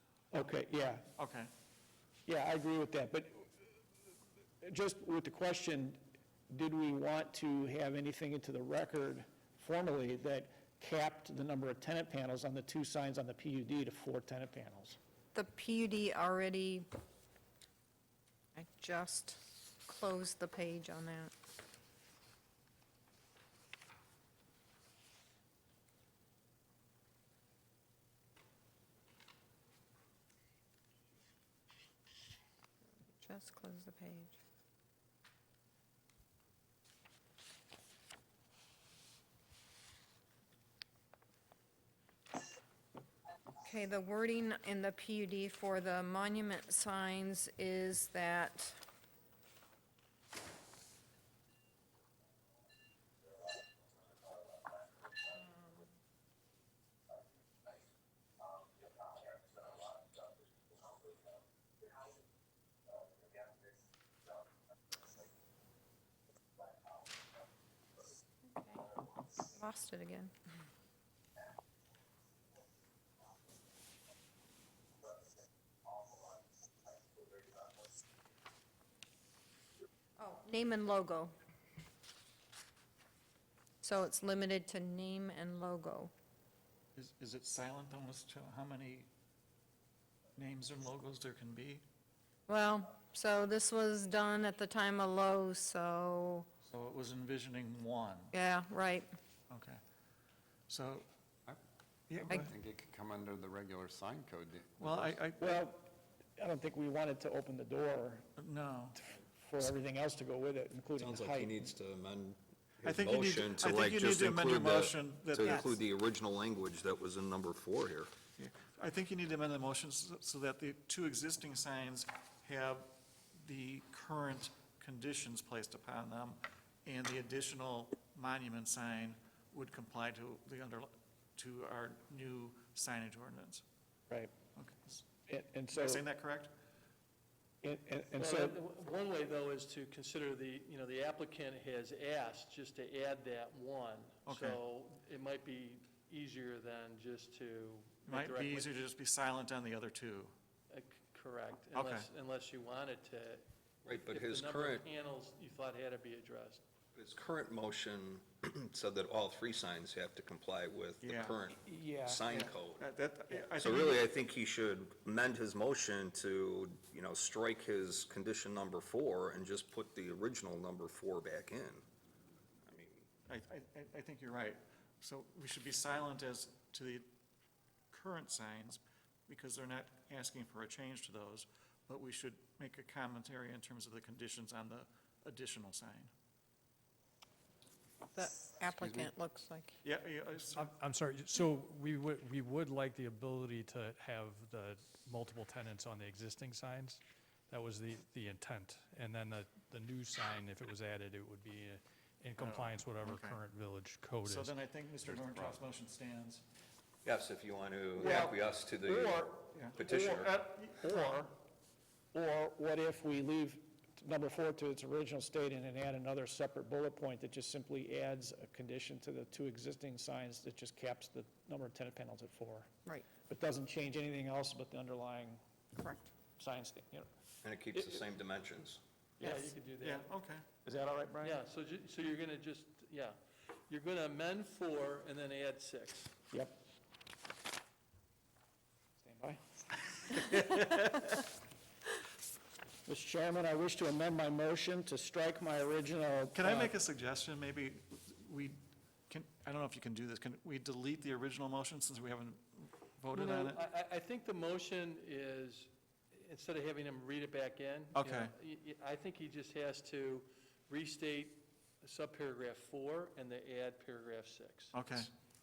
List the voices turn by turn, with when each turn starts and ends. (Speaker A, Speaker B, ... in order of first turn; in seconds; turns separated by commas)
Speaker A: 0.3-1.0, Speaker B: 1.2-1.5, Speaker A: 2.3-3.6, Speaker A: 4.6-15.0, Speaker C: 15.3-16.9, Speaker C: 18.6-21.3, Speaker C: 33.0-34.4, Speaker C: 43.6-48.8, Speaker C: 68.5-68.8, Speaker C: 69.4-70.3, Speaker C: 80.2-81.3, Speaker C: 83.8-86.1, Speaker B: 87.0-89.1, Speaker B: 90.4-91.8, Speaker C: 92.5-96.5, Speaker B: 96.7-98.3, Speaker C: 98.3-99.1, Speaker B: 99.5-99.8, Speaker B: 100.7-101.1, Speaker B: 102.1-102.5, Speaker D: 102.3-105.2, Speaker B: 104.8-105.6, Speaker A: 105.4-108.3, Speaker B: 108.4-109.0, Speaker A: 109.0-111.7, Speaker E: 111.0-118.1, Speaker B: 112.8-115.7, Speaker B: 118.4-133.6, Speaker B: 134.6-135.0, Speaker A: 135.3-136.0, Speaker B: 135.7-136.5, Speaker A: 137.6-138.6, Speaker F: 138.2-148.8, Speaker B: 144.2-144.6, Speaker B: 148.1-150.3, Speaker F: 150.7-156.6, Speaker B: 151.7-152.1, Speaker E: 153.8-154.9, Speaker E: 156.9-162.9, Speaker B: 161.0-161.4, Speaker A: 161.6-162.2, Speaker B: 162.3-164.1, Speaker E: 163.5-171.8, Speaker E: 172.7-173.1, Speaker B: 173.2-177.1, Speaker B: 177.9-186.1, Speaker C: 188.1-189.8, Speaker D: 188.8-189.1, Speaker B: 189.8-190.7, Speaker G: 190.6-204.5, Speaker B: 202.4-203.4, Speaker B: 204.2-206.4, Speaker D: 205.1-205.6, Speaker E: 207.0-210.3, Speaker A: 208.0-208.3, Speaker B: 208.0-208.3, Speaker A: 208.8-210.2, Speaker B: 209.5-210.8, Speaker A: 210.8-211.3, Speaker A: 212.1-225.4, Speaker C: 225.8-226.1, Speaker A: 226.4-227.1, Speaker E: 227.4-228.8, Speaker A: 229.2-229.5, Speaker F: 229.2-230.1, Speaker B: 229.8-230.4, Speaker A: 230.6-231.4, Speaker F: 231.2-233.2, Speaker F: 233.7-236.1, Speaker A: 239.0-239.4, Speaker A: 242.8-246.7, Speaker B: 246.3-253.6, Speaker F: 253.1-264.8, Speaker B: 257.9-258.3, Speaker B: 264.7-265.1